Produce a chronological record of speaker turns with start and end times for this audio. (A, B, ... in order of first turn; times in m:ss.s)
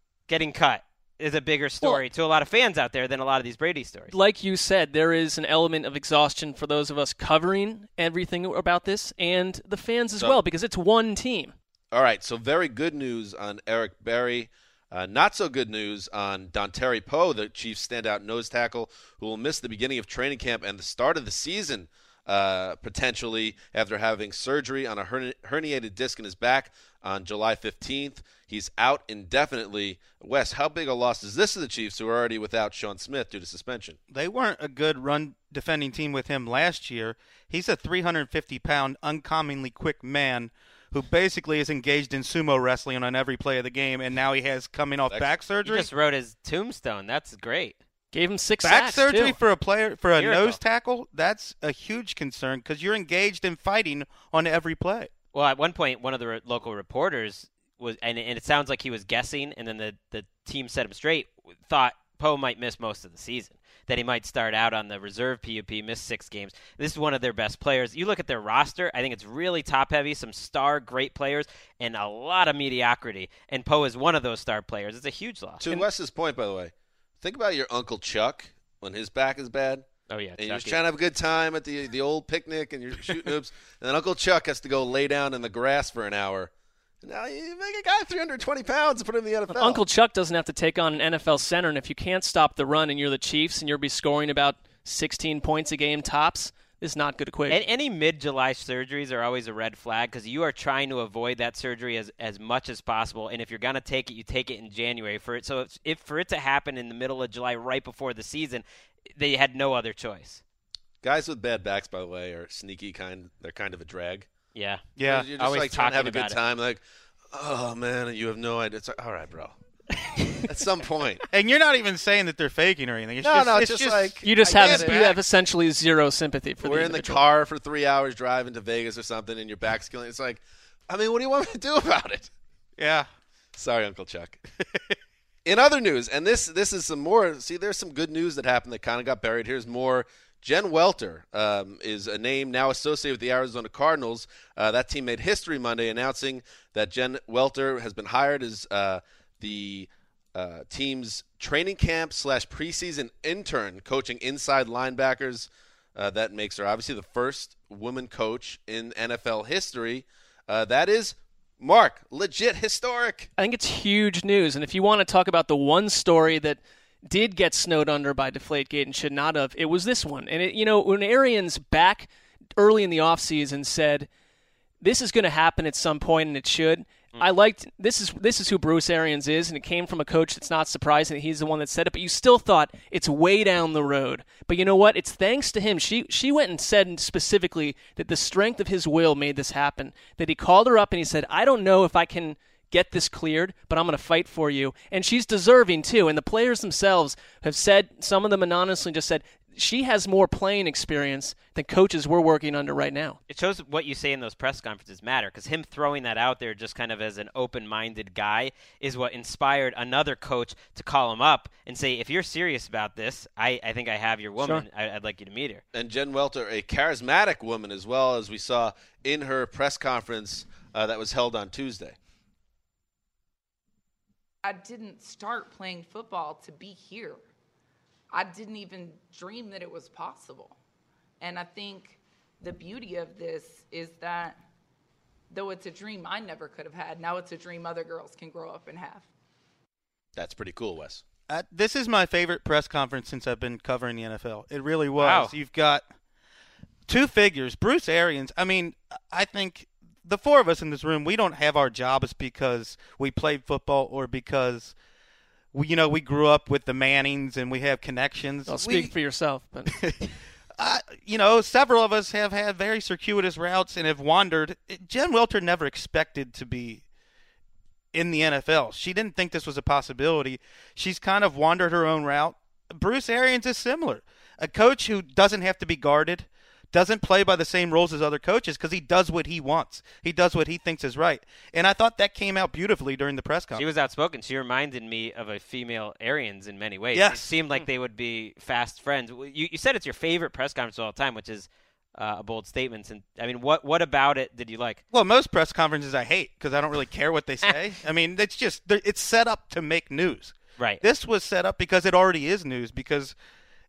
0:00.3-0:04.1 A
0:04.1-0:11.6 B
0:11.9-0:34.0 C
0:34.1-0:45.9 D
0:45.6-0:47.8 A
0:48.1-0:49.4 B
0:48.6-0:55.1 D
0:50.2-0:50.6 A
0:55.3-1:15.8 A
1:15.6-1:19.9 C
1:20.1-1:20.8 A
1:20.4-1:26.5 C
1:27.0-1:29.8 C
1:29.5-1:37.6 B
1:37.5-1:48.6 A
1:49.2-1:50.4 A
1:51.0-1:54.3 C
1:54.6-1:56.4 A
1:55.0-1:55.3 D
1:55.0-1:59.6 C
2:00.1-2:00.5 B
2:00.4-2:01.2 C
2:01.3-2:05.2 D
2:03.2-2:05.1 C
2:04.2-2:07.2 B
2:06.6-2:12.3 C
2:12.8-2:13.1 D
2:13.6-2:14.4 C
2:15.4-2:43.3 C
2:43.4-2:54.1 B
2:54.8-3:23.2 B
3:23.3-3:35.6 A
3:34.4-3:34.6 B
3:35.7-3:42.0 C
3:44.4-3:47.2 E
3:48.1-3:50.6 E
3:51.2-3:54.4 E
3:55.3-3:59.1 E
4:00.2-4:01.0 C
4:01.3-4:05.8 D
4:05.0-4:05.3 A
4:06.9-4:14.7 D
4:15.5-4:18.9 D
4:18.5-4:19.7 B
4:19.7-4:20.0 D
4:20.6-4:26.8 D
4:27.9-4:43.6 D
4:43.6-4:54.8 A
4:47.0-4:47.3 D
4:54.9-5:03.2 D